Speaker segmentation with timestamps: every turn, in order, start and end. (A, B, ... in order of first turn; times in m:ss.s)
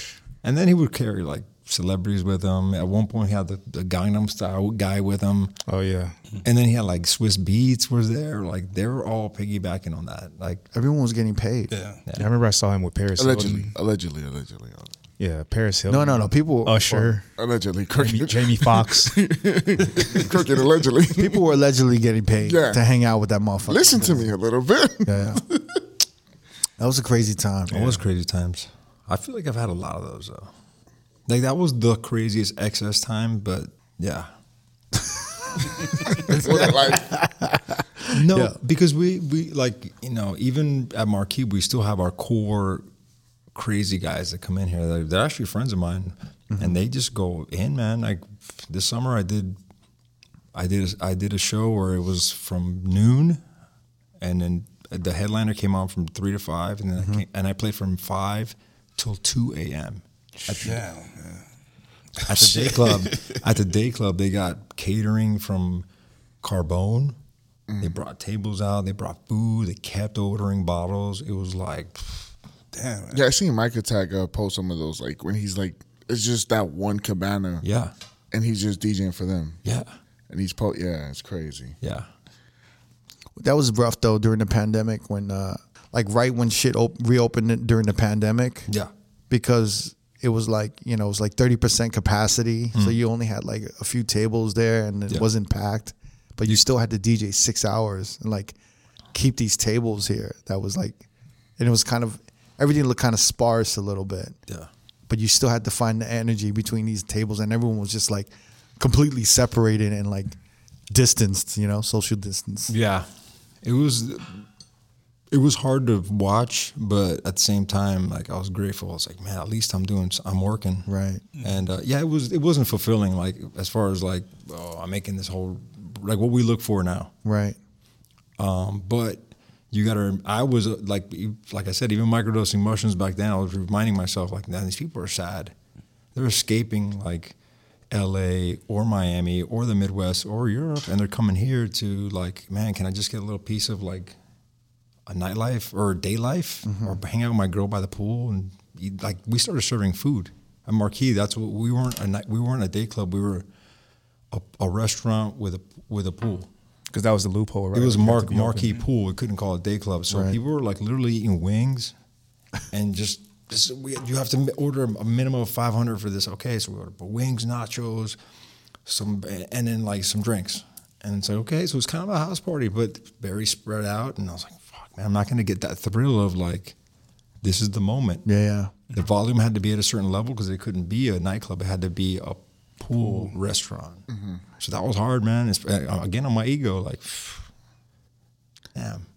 0:00.4-0:05.5 A
0:05.7-0:06.2 B
0:06.4-0:10.7 A
0:10.7-0:11.8 C
0:11.7-0:12.0 D
0:12.1-0:13.7 B
0:13.2-0:14.9 E
0:15.2-0:17.2 B
0:15.9-0:17.2 C
0:17.4-0:21.4 E
0:18.0-0:19.2 B
0:21.1-0:24.3 C
0:22.4-0:22.8 E
0:23.7-0:25.2 E
0:25.0-0:25.4 C
0:26.8-0:28.0 C
0:27.7-0:30.5 A
0:31.3-0:34.3 A
0:36.0-0:38.6 C
0:36.2-0:37.1 E
0:38.1-0:42.8 A
0:43.5-0:49.6 A
0:46.5-0:46.8 C
0:50.5-0:53.4 A
0:54.2-1:00.8 A
0:57.0-0:57.2 C
1:00.5-1:01.4 D
1:02.2-1:03.4 D
1:02.2-1:05.9 A
1:06.4-1:07.2 A
1:07.7-1:08.0 E
1:07.8-1:12.3 A
1:12.7-1:13.2 D
1:13.1-1:17.6 E
1:17.6-1:17.9 A
1:18.3-1:19.6 E
1:19.6-1:19.9 A
1:20.3-1:21.8 E
1:21.8-1:22.1 A
1:23.4-1:28.7 C
1:29.3-1:38.6 C
1:39.1-1:41.0 C
1:41.6-1:44.4 C
1:45.1-1:50.4 C
1:50.9-1:52.7 C
1:52.7-1:53.1 A
1:53.6-1:54.4 A
1:55.3-2:00.9 A
2:00.9-2:01.2 C
2:01.4-2:07.1 A
2:07.2-2:07.6 C
2:08.4-2:15.5 A
2:16.1-2:17.4 A
2:17.9-2:24.2 A
2:25.1-2:33.4 A
2:26.6-2:27.0 C
2:34.3-2:36.5 A
2:36.9-2:38.8 B
2:37.7-2:41.9 A
2:40.1-2:40.4 C
2:42.7-2:48.2 A
2:48.8-2:56.8 A
2:57.4-2:58.3 A
2:58.2-2:58.7 C
2:58.9-3:04.0 A
3:04.1-3:04.4 E
3:04.6-3:07.5 A
3:08.8-3:09.1 A